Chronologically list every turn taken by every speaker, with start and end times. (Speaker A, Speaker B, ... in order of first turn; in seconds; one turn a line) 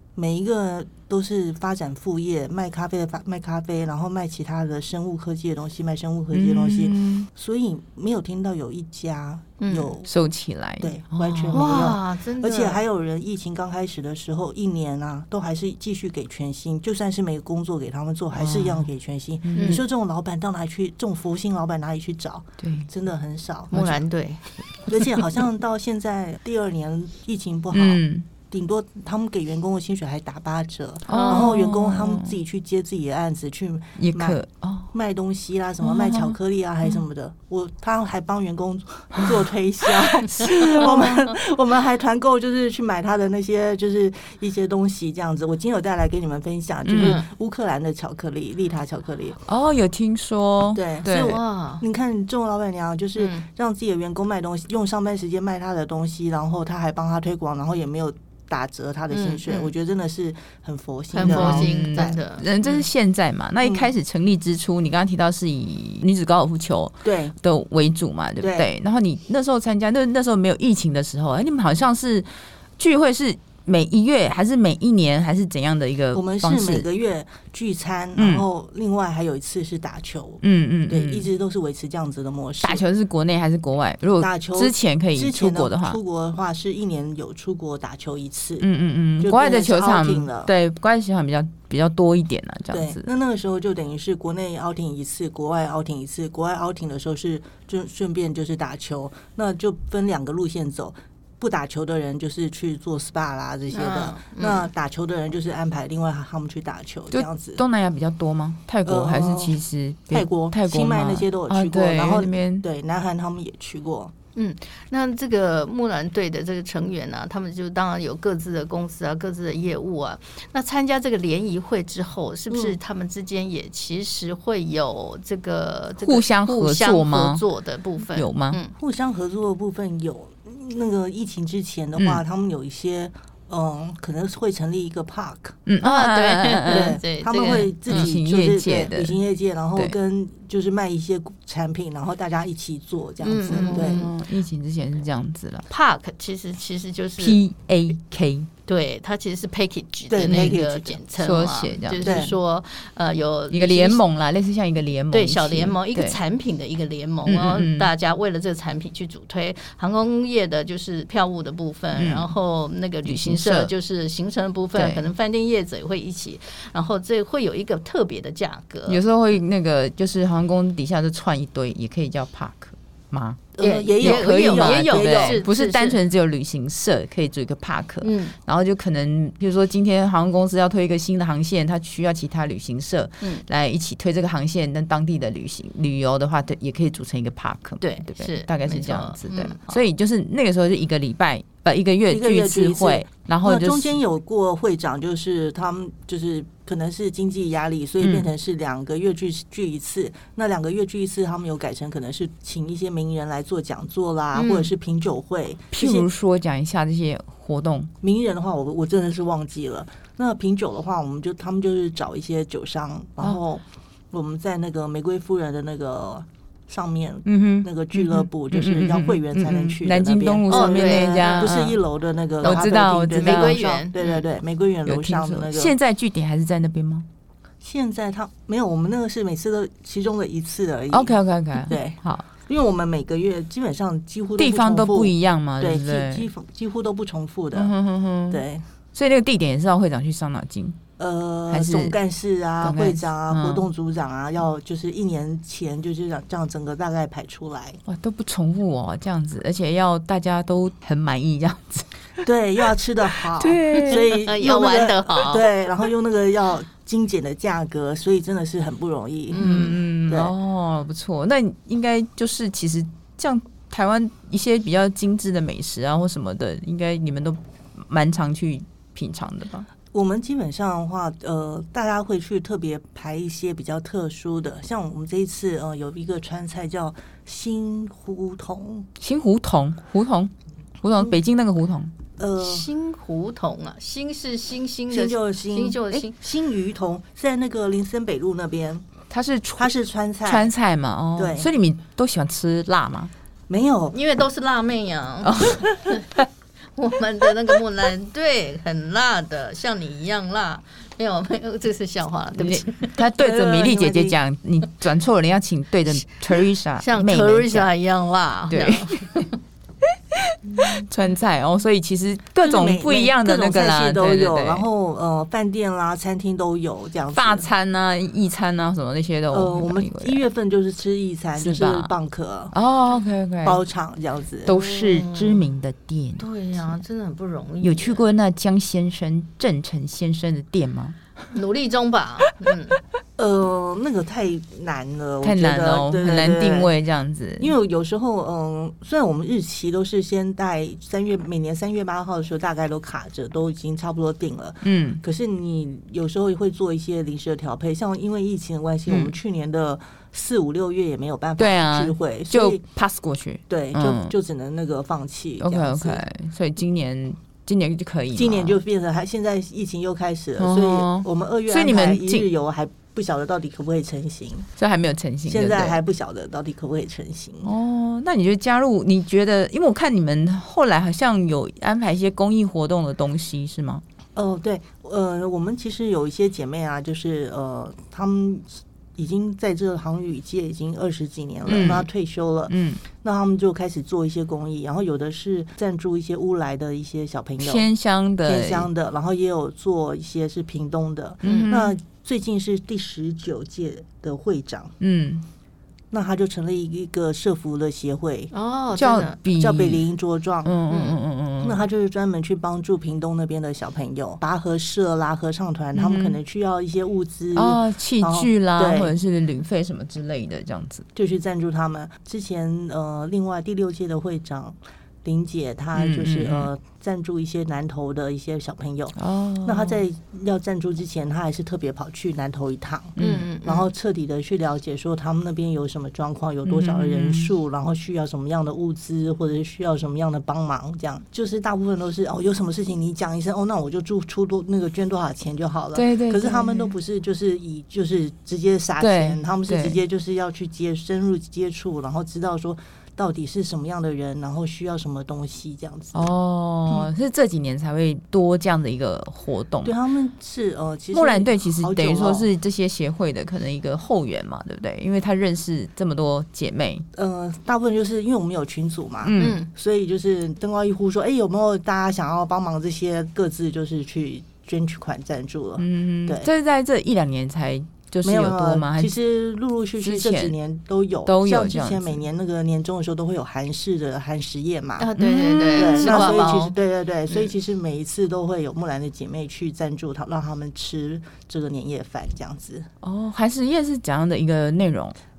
Speaker A: 0.2-10.1
Speaker B: 6.3-7.3
Speaker C: 9.6-9.9
Speaker B: 10.1-11.9
Speaker A: 10.8-24.0
Speaker C: 11.5-12.8
Speaker B: 18.3-18.9
Speaker B: 19.4-19.8
Speaker C: 19.6-19.8
Speaker B: 22.6-22.9
Speaker C: 23.7-25.0
Speaker A: 24.9-34.4
Speaker B: 27.7-28.3
Speaker C: 31.1-31.6
Speaker B: 31.1-32.4
Speaker B: 34.0-34.9
Speaker A: 34.9-49.4
Speaker B: 35.8-37.0
Speaker B: 39.2-41.3
Speaker B: 46.9-47.2
Speaker C: 47.0-47.3
Speaker B: 49.5-51.4
Speaker A: 50.7-62.2
Speaker C: 51.1-51.8
Speaker C: 53.2-53.4
Speaker C: 59.1-59.7
Speaker C: 61.1-62.8
Speaker B: 61.2-76.9
Speaker A: 63.6-63.9
Speaker A: 67.0-67.4
Speaker A: 68.4-68.7
Speaker A: 76.1-82.8
Speaker B: 78.2-78.5
Speaker B: 80.4-81.3
Speaker B: 82.6-86.0
Speaker A: 84.2-88.7
Speaker B: 88.6-93.1
Speaker A: 89.2-90.5
Speaker A: 92.7-107.6
Speaker C: 103.7-104.7
Speaker B: 107.1-112.7
Speaker A: 108.8-109.6
Speaker A: 110.1-114.1
Speaker C: 114.4-128.7
Speaker A: 122.5-122.8
Speaker B: 126.0-127.4
Speaker B: 128.1-128.6
Speaker A: 128.8-135.6
Speaker B: 132.0-132.2
Speaker B: 135.7-139.2
Speaker C: 135.8-138.1
Speaker A: 136.7-144.1
Speaker C: 143.2-144.1
Speaker B: 143.5-145.7
Speaker C: 145.7-147.4
Speaker B: 147.2-148.5
Speaker C: 148.7-154.0
Speaker A: 150.1-151.0
Speaker B: 150.3-150.5
Speaker B: 151.2-152.3
Speaker A: 152.0-152.3
Speaker B: 153.5-156.2
Speaker C: 155.1-169.0
Speaker B: 157.2-157.9
Speaker B: 161.9-162.3
Speaker B: 163.1-163.7
Speaker B: 164.8-165.0
Speaker B: 168.9-194.0
Speaker A: 173.6-175.4
Speaker C: 173.6-176.0
Speaker C: 178.0-178.4
Speaker C: 187.8-189.8
Speaker A: 192.1-206.1
Speaker B: 198.0-198.3
Speaker C: 204.3-204.7
Speaker B: 205.7-207.9
Speaker A: 208.0-225.7
Speaker B: 217.3-221.8
Speaker C: 220.5-221.5
Speaker B: 222.4-223.8
Speaker C: 223.2-224.2
Speaker B: 224.9-227.1
Speaker A: 227.6-237.7
Speaker B: 230.9-232.3
Speaker B: 234.4-236.3
Speaker B: 237.5-238.4
Speaker A: 238.3-238.6
Speaker B: 238.9-240.8
Speaker A: 241.0-247.8
Speaker B: 241.5-242.0
Speaker B: 242.6-243.7
Speaker B: 247.9-252.2
Speaker A: 252.2-260.3
Speaker B: 253.2-254.1
Speaker C: 253.9-255.4
Speaker C: 259.3-259.8
Speaker B: 259.3-269.7
Speaker A: 269.9-278.9
Speaker B: 279.0-281.9
Speaker A: 282.2-282.7
Speaker C: 282.4-286.1
Speaker A: 284.9-288.9
Speaker B: 289.1-289.7
Speaker A: 289.6-290.5
Speaker B: 290.2-293.1
Speaker A: 291.2-291.5
Speaker A: 293.5-294.0
Speaker C: 293.9-296.1
Speaker B: 295.2-296.2
Speaker C: 296.8-303.0
Speaker B: 302.4-307.7
Speaker A: 303.0-304.2
Speaker C: 306.8-309.4
Speaker B: 308.5-309.3
Speaker B: 309.8-314.7
Speaker A: 312.4-317.5
Speaker B: 317.1-320.2
Speaker A: 319.3-322.5
Speaker B: 321.4-321.9
Speaker B: 322.5-323.6
Speaker A: 323.4-324.6
Speaker B: 324.4-326.8
Speaker C: 324.5-325.4
Speaker C: 326.2-328.0
Speaker B: 327.6-331.0
Speaker C: 331.3-332.8
Speaker A: 333.2-336.7
Speaker B: 335.2-337.6
Speaker A: 337.4-352.6
Speaker B: 344.6-345.0
Speaker B: 348.9-349.1
Speaker B: 351.4-354.1
Speaker A: 353.5-356.0
Speaker B: 355.4-358.6
Speaker A: 358.1-364.5
Speaker B: 360.4-362.3
Speaker B: 364.6-365.8
Speaker A: 365.3-367.5
Speaker B: 367.4-373.8
Speaker A: 374.2-387.7
Speaker B: 381.5-381.9
Speaker B: 382.5-382.8
Speaker B: 387.4-388.7
Speaker A: 388.2-394.7
Speaker C: 391.2-391.6
Speaker B: 391.3-391.7
Speaker B: 394.8-395.2
Speaker A: 395.9-398.3
Speaker C: 398.3-399.2
Speaker B: 398.8-399.9
Speaker A: 399.4-400.6
Speaker B: 400.4-401.6
Speaker C: 400.7-401.0
Speaker A: 401.4-408.9
Speaker B: 405.8-406.2
Speaker B: 407.4-410.9
Speaker A: 411.0-446.1
Speaker B: 415.8-416.5
Speaker B: 419.0-419.8
Speaker B: 423.0-423.3
Speaker C: 423.0-423.7
Speaker B: 426.4-427.3
Speaker B: 435.8-436.7
Speaker B: 438.8-439.8
Speaker B: 445.9-449.7
Speaker A: 449.6-452.3
Speaker B: 450.9-456.9
Speaker A: 457.0-466.3
Speaker B: 459.0-459.4
Speaker C: 459.2-459.5
Speaker B: 465.6-468.9
Speaker A: 468.0-474.9
Speaker B: 469.8-470.3
Speaker B: 471.1-472.0
Speaker C: 474.8-476.6
Speaker B: 475.0-476.3
Speaker A: 475.6-482.7
Speaker B: 482.8-484.9